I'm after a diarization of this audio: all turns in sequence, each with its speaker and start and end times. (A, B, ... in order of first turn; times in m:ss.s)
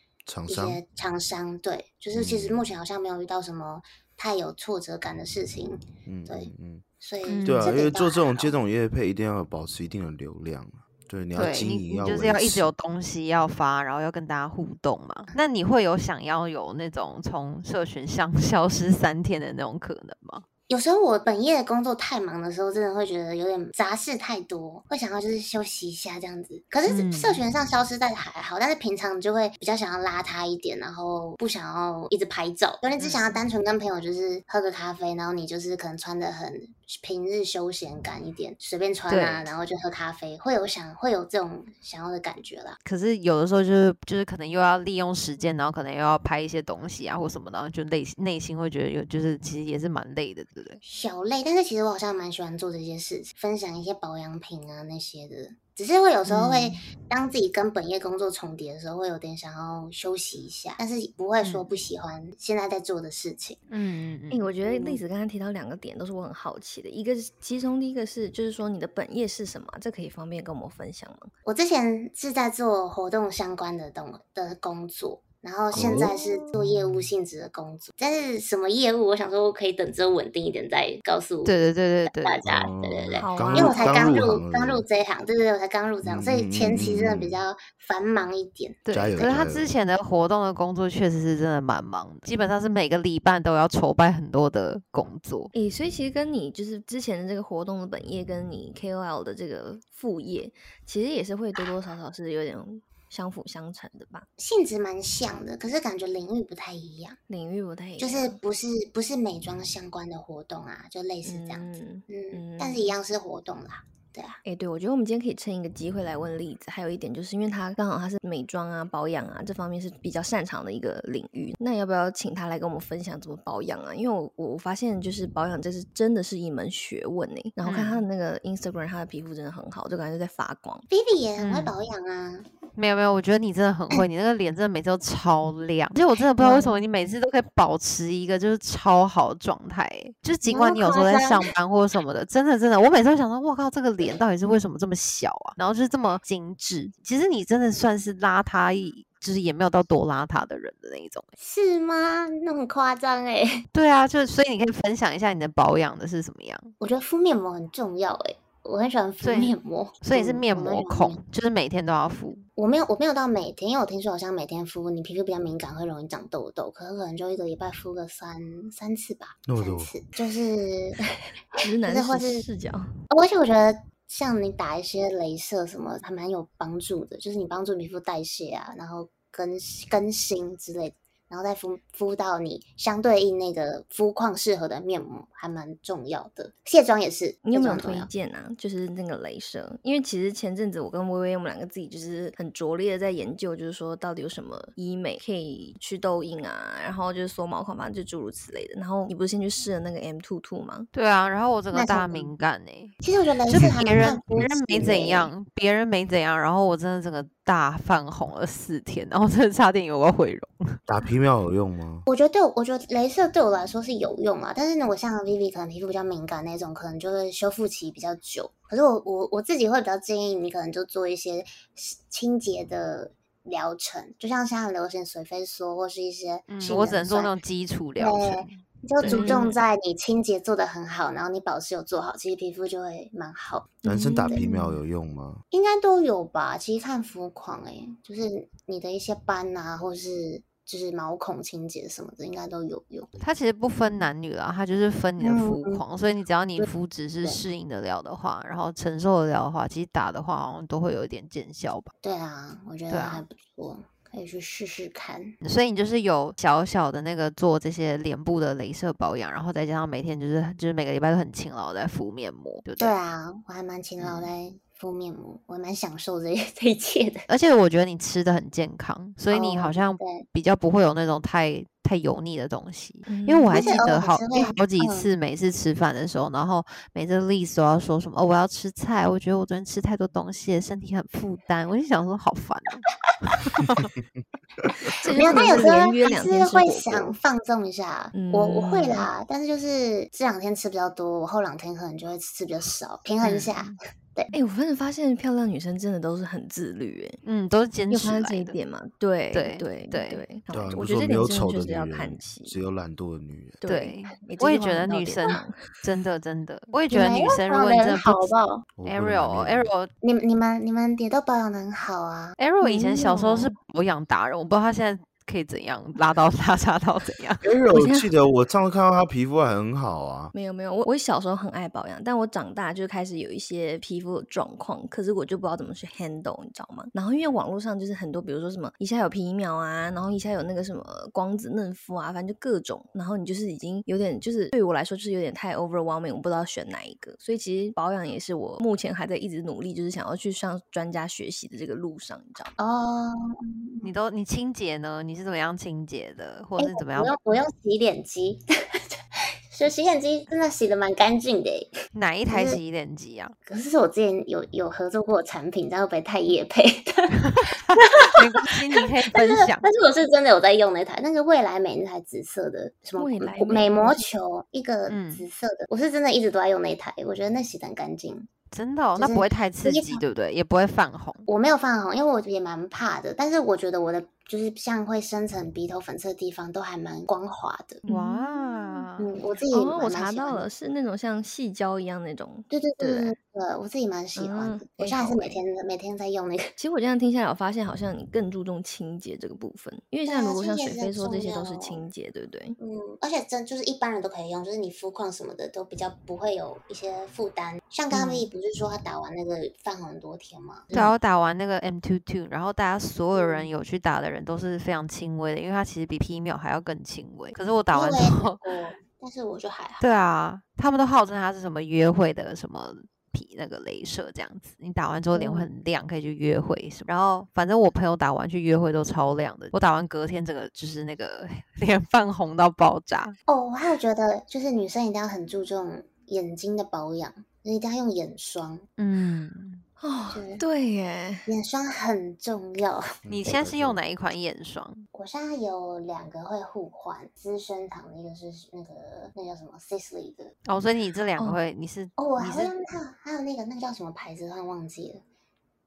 0:00.2-0:00.8 A
0:00.5-0:08.6 B
0:02.1-0:02.6 A
0:06.0-0:06.8 A
0:07.3-0:07.7 C
0:07.4-0:12.7 A
0:11.3-0:20.4 C
0:20.7-0:42.8 B
0:26.9-0:27.4 C
0:33.0-0:33.4 C
0:39.1-0:39.5 C
0:42.8-0:50.8 C
0:50.8-1:03.6 B
0:56.2-0:56.8 C
1:01.4-1:01.7 C
1:03.7-1:04.5 C
1:04.3-1:11.3 D
1:04.6-1:05.0 B
1:11.4-1:21.5 B
1:15.7-1:16.2 A
1:15.8-1:16.2 D
1:21.4-1:22.4 C
1:22.1-1:28.8 B
1:22.4-1:24.8 A
1:23.2-1:24.2 D
1:26.0-1:27.4 A
1:28.8-1:35.5 C
1:28.9-1:29.7 A
1:35.5-1:44.3 D
1:44.4-1:47.2 B
1:47.3-1:48.4 D
1:48.0-1:54.4 B
1:51.2-1:52.9 D
1:54.4-2:10.8 D
2:07.6-2:08.0 C
2:10.9-2:12.5 B
2:11.4-2:11.7 C
2:12.8-2:31.3 C
2:16.4-2:16.8 B
2:20.4-2:21.5 B
2:31.4-2:33.6 B
2:33.7-2:36.7 C
2:36.8-2:41.2 B
2:39.2-2:42.4 C
2:42.6-2:52.4 B
2:49.5-2:49.9 A
2:51.6-2:52.9 D
2:53.1-3:08.1 B
3:07.4-3:20.9 D
3:20.9-3:30.8 C
3:21.7-3:22.3 B
3:23.0-3:25.3 B
3:23.6-3:24.2 A
3:30.9-3:32.0 A
3:32.1-3:47.4 B
3:46.5-3:49.6 C
3:48.0-3:53.8 B
3:49.0-3:49.4 D
3:53.8-3:55.4 A
3:53.9-3:54.3 D
3:54.2-3:54.8 C
3:55.5-4:03.2 B
4:03.2-4:11.9 C
4:05.2-4:05.8 B
4:12.0-4:15.3 B
4:12.9-4:13.2 C
4:15.4-4:22.9 C
4:22.8-4:27.3 B
4:24.0-4:24.3 C
4:27.3-4:42.8 C
4:29.3-4:30.2 B
4:33.1-4:33.7 D
4:33.5-4:35.1 B
4:43.4-4:43.9 C
4:44.6-4:44.9 A
4:45.0-4:47.1 D
4:45.0-4:54.3 B
4:48.1-4:49.1 D
4:53.2-4:53.8 C
4:54.3-4:57.2 D
4:57.2-4:58.6 C
4:57.9-5:02.6 D
4:59.3-5:00.2 C
5:00.5-5:03.6 A
5:03.6-5:05.7 D
5:03.6-5:08.3 C
5:06.9-5:08.6 B
5:08.8-5:09.7 A
5:08.8-5:09.9 C
5:10.0-5:12.4 B
5:12.4-5:17.5 C
5:12.6-5:13.5 D
5:17.4-5:20.3 A
5:17.7-5:18.1 D
5:20.3-5:42.5 D
5:42.6-5:43.9 B
5:43.8-5:47.1 C
5:46.6-5:51.7 B
5:51.9-5:53.3 C
5:52.3-5:52.6 B
5:53.5-5:58.5 B
5:57.3-5:59.7 C
5:59.1-6:08.3 B
6:03.0-6:04.0 D
6:04.9-6:05.2 C
6:08.5-6:11.3 C
6:09.0-6:10.0 B
6:11.3-6:17.8 B
6:17.8-6:18.8 D
6:17.8-6:19.1 C
6:19.0-6:20.5 B
6:19.5-6:23.1 D
6:22.5-6:26.5 B
6:24.2-6:25.4 D
6:26.6-6:32.6 D
6:30.0-6:31.8 B
6:32.6-6:40.8 B
6:37.9-6:38.2 C
6:40.7-6:48.5 C
6:43.1-6:43.5 B
6:47.7-6:49.8 B
6:49.8-7:03.1 C
6:55.1-6:55.5 B
7:03.3-7:08.6 B
7:08.8-7:09.6 C
7:09.8-7:11.3 D
7:10.1-7:10.4 B
7:11.2-7:12.8 B
7:13.0-7:13.8 A
7:13.1-7:14.8 C
7:14.9-7:20.3 B
7:20.4-7:22.5 C
7:22.0-7:25.0 B